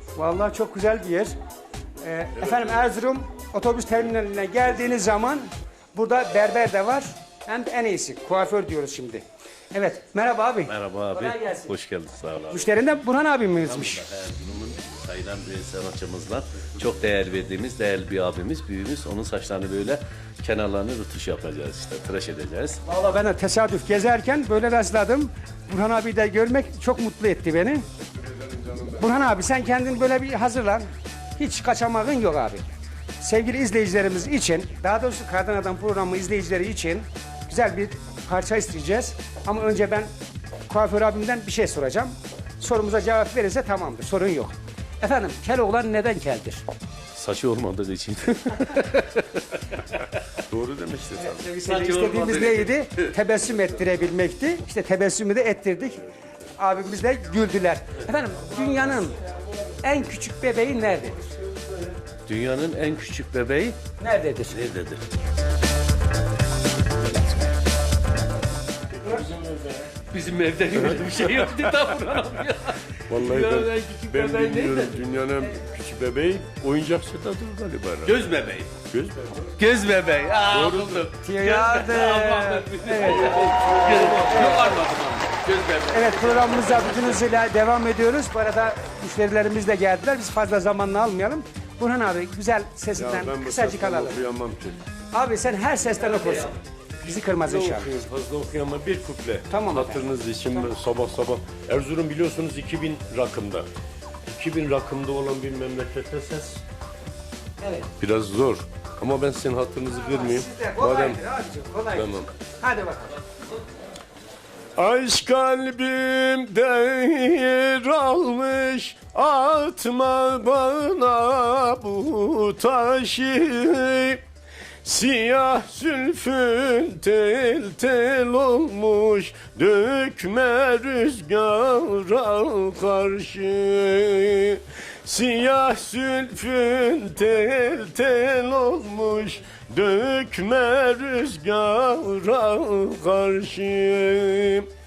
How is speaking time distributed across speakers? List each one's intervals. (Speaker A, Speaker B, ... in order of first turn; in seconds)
Speaker A: 0.1-1.3, 2.0-11.7, 12.5-14.1, 22.9-27.8, 28.8-30.9, 31.4-32.6, 33.2-40.1, 40.7-46.6, 51.2-56.0, 56.6-59.2, 59.8-61.2, 64.0-64.6, 81.2-84.7, 85.9-94.2, 95.1-97.9, 99.5-100.1, 107.6-107.9, 109.9-113.2
Speaker B: 10.7-12.7, 13.6-22.8, 47.1-50.0, 51.6-53.1, 62.3-63.8, 64.5-65.0, 70.1-75.0, 78.0-78.8, 79.5-87.2, 96.2-96.5
Speaker C: 50.5-51.5, 69.0-69.9, 71.0-71.5, 73.1-78.2, 78.9-79.4, 80.5-81.1, 93.0-94.8, 97.3-103.7, 104.3-106.6, 108.0-111.2, 112.0-112.3, 114.8-124.2, 124.8-144.7